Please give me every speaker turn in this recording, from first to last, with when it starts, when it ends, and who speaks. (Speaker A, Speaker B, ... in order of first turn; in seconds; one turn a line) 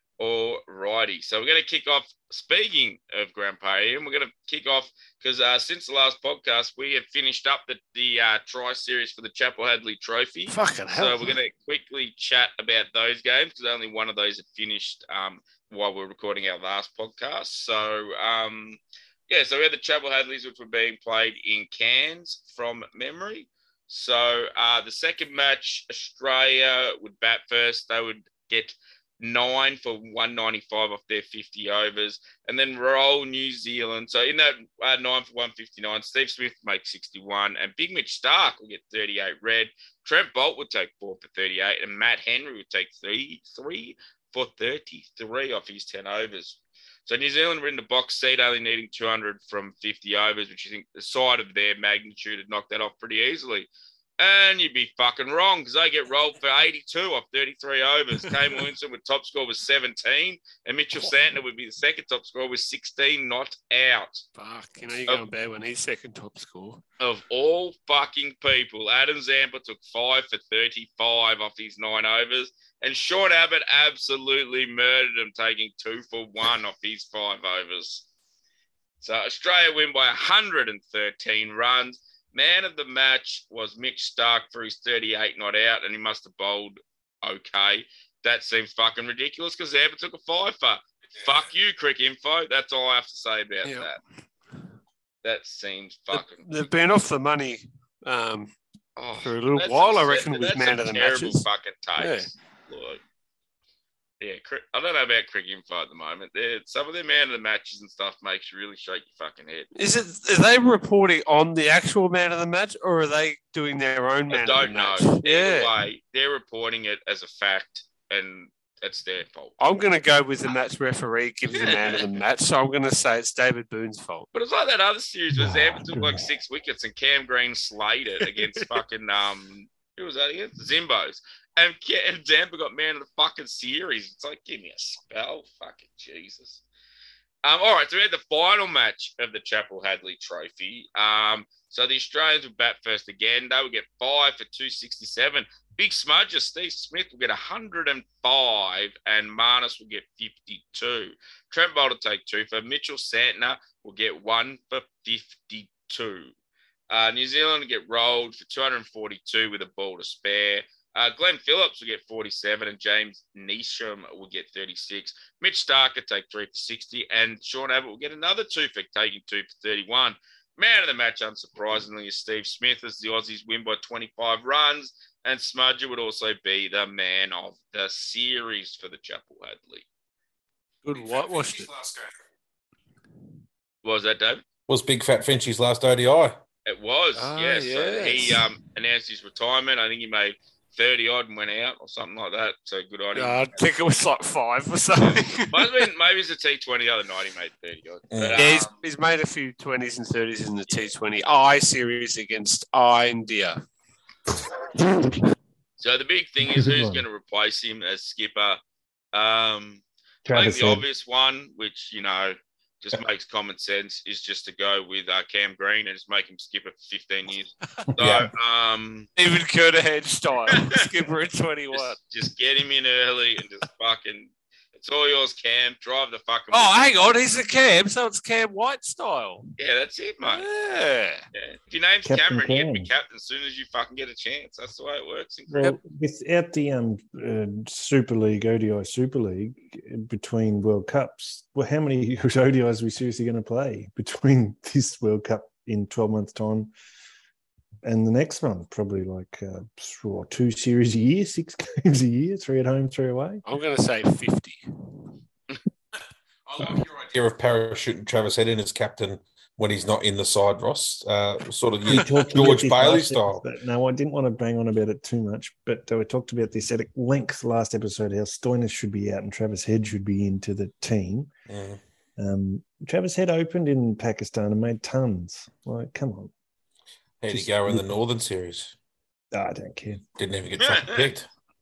Speaker A: 0.2-64.2
Speaker B: 10.5-11.4
Speaker B: 64.4-66.8
Speaker A: 67.0-78.1
Speaker A: 79.0-94.0
Speaker B: 93.6-93.9
Speaker A: 95.2-96.5
Speaker B: 96.1-98.5
Speaker A: 99.0-103.0
Speaker B: 99.2-101.5
Speaker B: 102.0-102.3
Speaker A: 104.2-109.7
Speaker B: 109.8-115.7
Speaker A: 114.3-119.6
Speaker B: 119.6-124.3
Speaker A: 121.5-122.1
Speaker A: 124.3-136.6
Speaker C: 125.3-126.3
Speaker B: 128.3-128.6
Speaker A: 137.4-156.3
Speaker A: 156.9-179.8
Speaker B: 180.8-181.7
Speaker D: 180.9-182.2
Speaker A: 183.8-184.4
Speaker D: 184.7-186.4
Speaker A: 186.7-193.6
Speaker B: 187.2-188.4
Speaker B: 193.2-195.8
Speaker A: 195.0-198.7
Speaker D: 198.1-198.4
Speaker B: 198.4-203.6
Speaker A: 205.8-208.6
Speaker C: 206.5-207.1
Speaker A: 209.1-219.1
Speaker C: 210.2-210.9
Speaker C: 218.0-218.3
Speaker B: 219.2-222.0
Speaker A: 220.5-220.9
Speaker A: 221.7-227.5
Speaker B: 226.5-229.5
Speaker A: 229.6-230.4
Speaker B: 230.2-231.2
Speaker A: 231.3-235.7
Speaker C: 232.1-232.9
Speaker C: 235.5-246.7
Speaker C: 247.8-253.4
Speaker B: 253.4-254.6
Speaker D: 256.5-263.4
Speaker C: 261.9-271.3
Speaker D: 271.5-271.8
Speaker C: 272.2-276.3
Speaker D: 277.2-278.7
Speaker C: 277.3-278.0
Speaker C: 279.3-280.0
Speaker D: 280.2-281.3
Speaker A: 280.6-281.1